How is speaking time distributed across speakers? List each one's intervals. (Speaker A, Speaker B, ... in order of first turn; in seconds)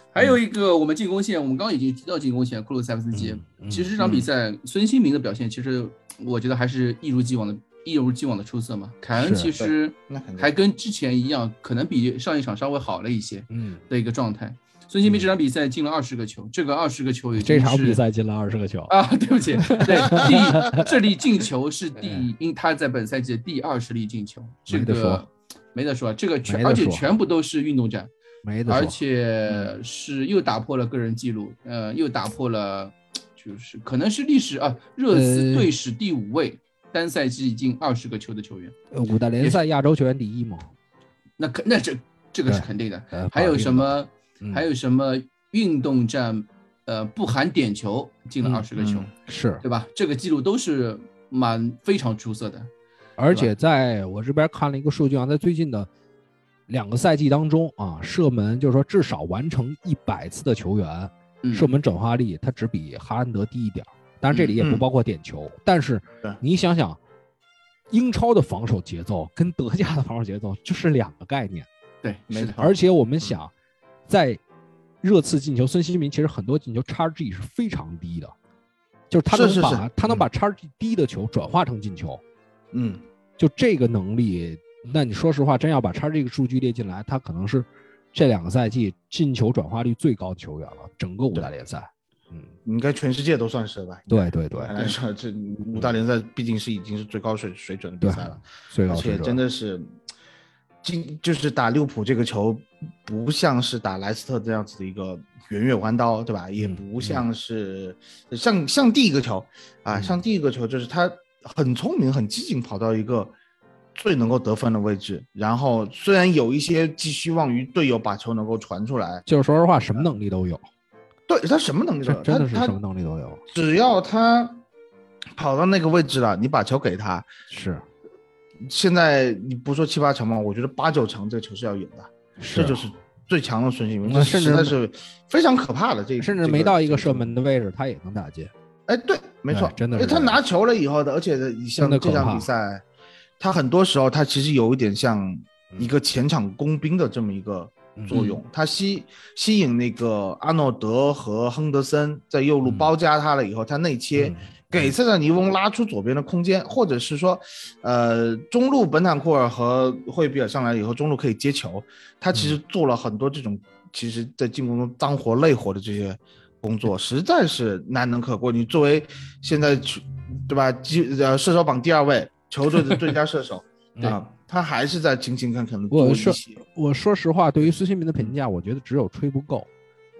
Speaker A: 0.1-18.0, 18.9-28.1, 28.7-38.7, 41.4-49.1, 49.6-52.7, 61.4-61.7, 64.3-64.6, 72.0-72.6, 148.1-148.4
Speaker B: 3.1-3.9, 9.2-9.5, 13.5-13.8, 17.4-18.9, 19.6-20.9, 24.7-25.2, 26.4-27.1, 28.4-29.0, 35.1-35.7, 38.9-40.7, 42.5-44.6, 49.3-49.6, 53.2-55.9, 56.7-67.0, 67.9-71.7, 72.6-73.5, 74.1-74.4, 75.0-78.3, 79.1-82.2, 83.4-92.5, 94.1-94.7, 98.0-99.4, 106.6-107.2, 109.9-110.2, 119.3-120.6, 122.1-123.4, 127.5-127.8, 132.4-132.8, 134.1-134.7, 136.2-138.5, 139.5-140.4, 141.8-142.5, 147.9-148.2, 152.6-152.9, 154.2-154.9, 175.9-179.7
Speaker C: 9.6-10.5, 48.7-49.1, 64.6-64.8, 72.3-73.4, 79.3-80.2, 82.7-83.0, 92.6-99.9, 100.8-113.3, 114.0-119.2, 121.3-122.8, 123.5-124.6, 125.4-127.3, 128.6-137.3, 138.9-142.8, 143.4-176.6